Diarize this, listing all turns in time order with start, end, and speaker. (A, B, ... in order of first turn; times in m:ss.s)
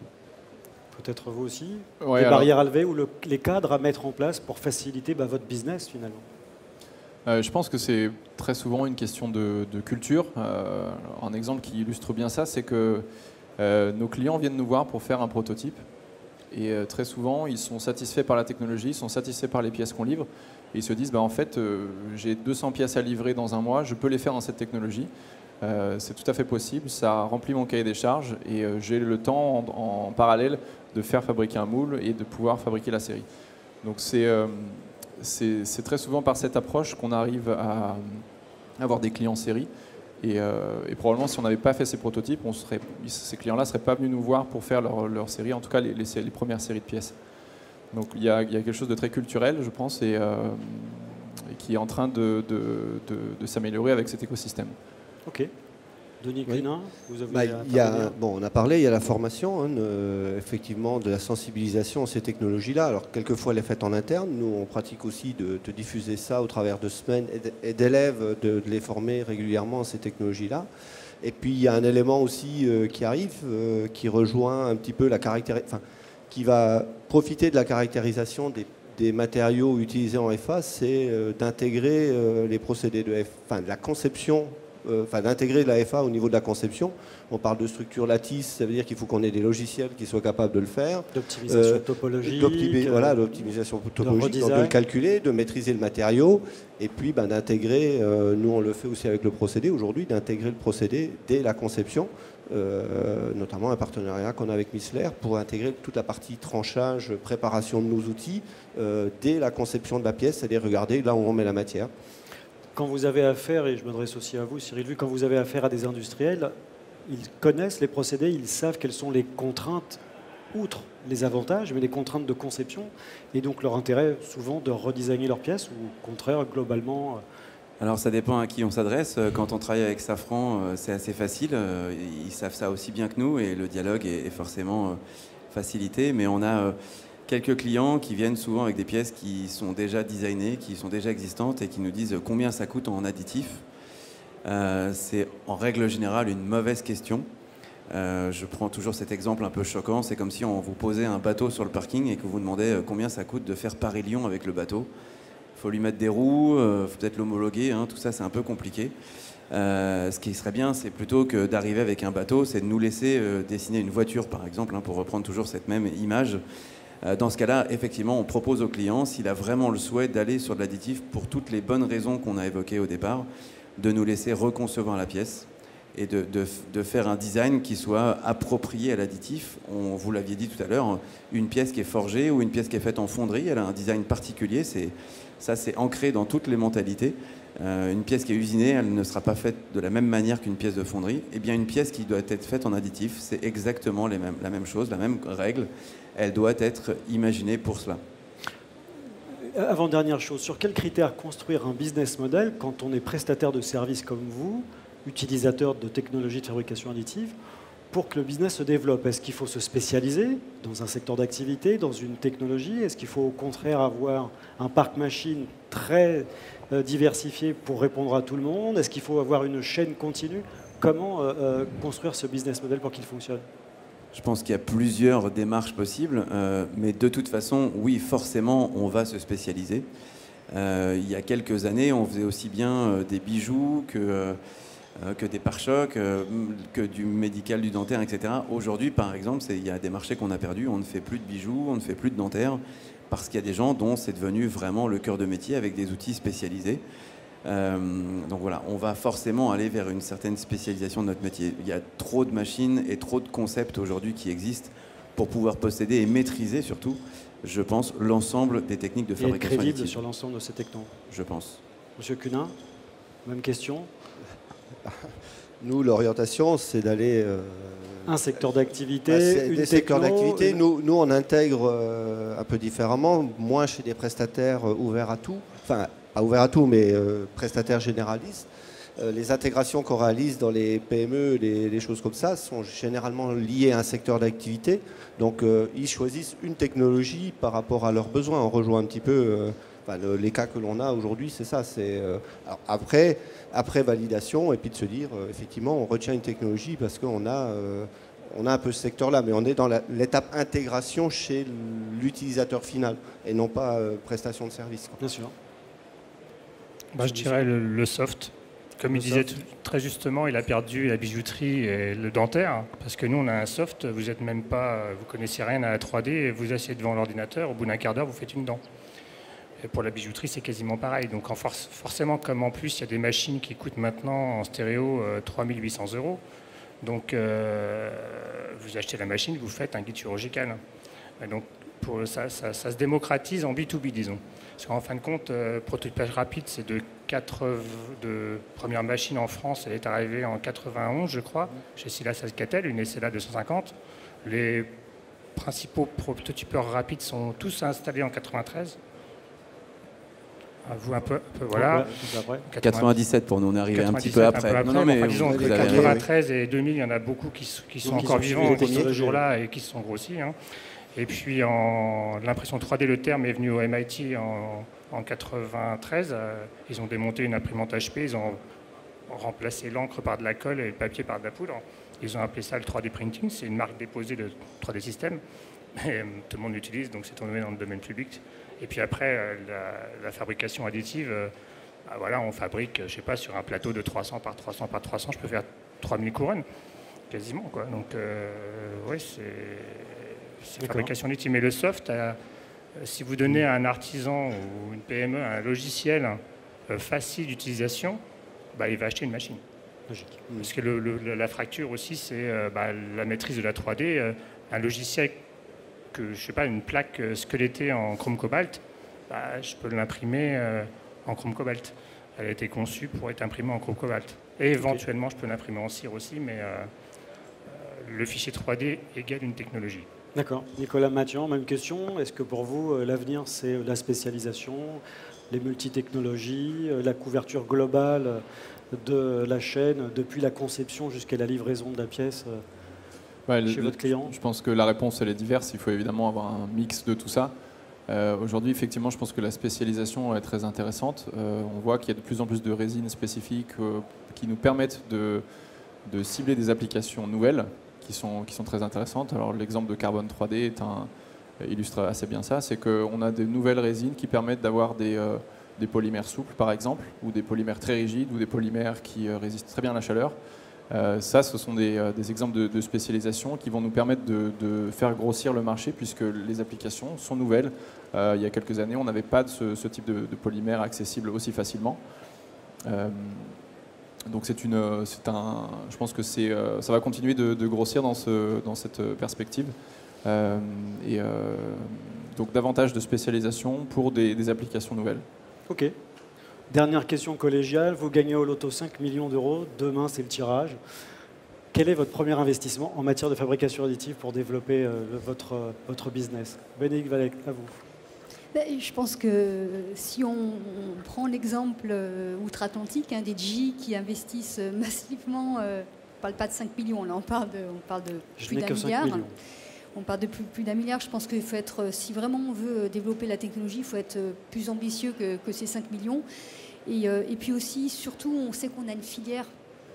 0:00.9-0:06.2 A
0:02.0-0:02.5 B
0:07.2-0:13.0 B
0:13.6-0:15.8 B
0:16.5-0:25.1 B
0:25.6-0:33.3 B
0:33.8-0:38.2 B
0:38.8-0:39.7 B
0:40.2-0:47.1 B
0:47.9-0:54.8 B
0:55.2-0:55.5 A
0:56.2-0:58.1 A
0:57.3-1:10.7 C
1:11.2-1:51.9 C
1:31.1-1:33.4 A
1:34.0-1:34.7 A
1:52.7-2:00.0 A
2:00.5-2:07.2 A
2:07.8-2:15.0 D
2:15.5-2:23.6 D
2:24.4-2:27.2 D
2:27.9-2:34.9 D
2:35.5-2:38.9 D
2:39.5-2:46.4 D
2:47.0-3:18.0 D
3:19.3-3:27.4 A
3:27.9-3:43.4 A
3:44.1-3:49.8 D
3:50.5-3:54.4 D
3:55.0-4:06.8 D
4:07.4-4:20.0 D
4:19.2-4:20.9 A
4:21.1-4:21.6 D
4:22.0-4:22.5 A
4:23.2-4:23.9 A
4:24.8-4:28.5 C
4:28.0-4:30.6 A
4:29.1-5:05.0 C
5:05.0-5:05.3 A
5:06.9-5:18.6 E
5:07.0-5:07.5 A
5:08.9-5:09.3 A
5:19.6-5:26.2 E
5:26.8-5:30.6 E
5:31.2-5:43.7 E
5:44.2-5:44.7 E
5:45.4-5:48.8 E
5:50.6-5:51.9 E
5:51.5-5:52.5 A
5:52.4-5:52.9 E
5:52.6-5:56.0 D
5:53.7-6:00.3 E
5:55.2-5:56.0 C
5:57.8-5:59.2 A
6:00.9-6:08.4 E
6:09.1-6:15.2 E
6:15.7-6:21.3 E
6:21.8-6:26.4 E
6:27.1-6:32.2 E
6:30.6-6:30.9 A
6:32.7-6:38.0 E
6:38.5-6:39.4 E
6:39.9-6:40.2 A
6:40.3-6:45.2 E
6:45.9-6:56.7 E
6:57.5-6:59.9 E
7:00.1-7:12.4 A
7:13.3-7:17.3 B
7:13.5-7:14.1 A
7:17.9-7:25.2 B
7:25.8-7:30.9 B
7:31.4-7:40.1 B
7:40.7-7:51.8 B
7:52.6-7:53.4 B
7:54.1-7:59.5 B
8:00.0-8:05.0 B
8:05.5-8:05.7 A
8:06.5-8:10.6 A
8:11.5-8:17.6 A
8:18.3-8:29.0 F
8:28.2-8:29.1 A
8:29.7-8:36.0 F
8:36.6-8:39.3 F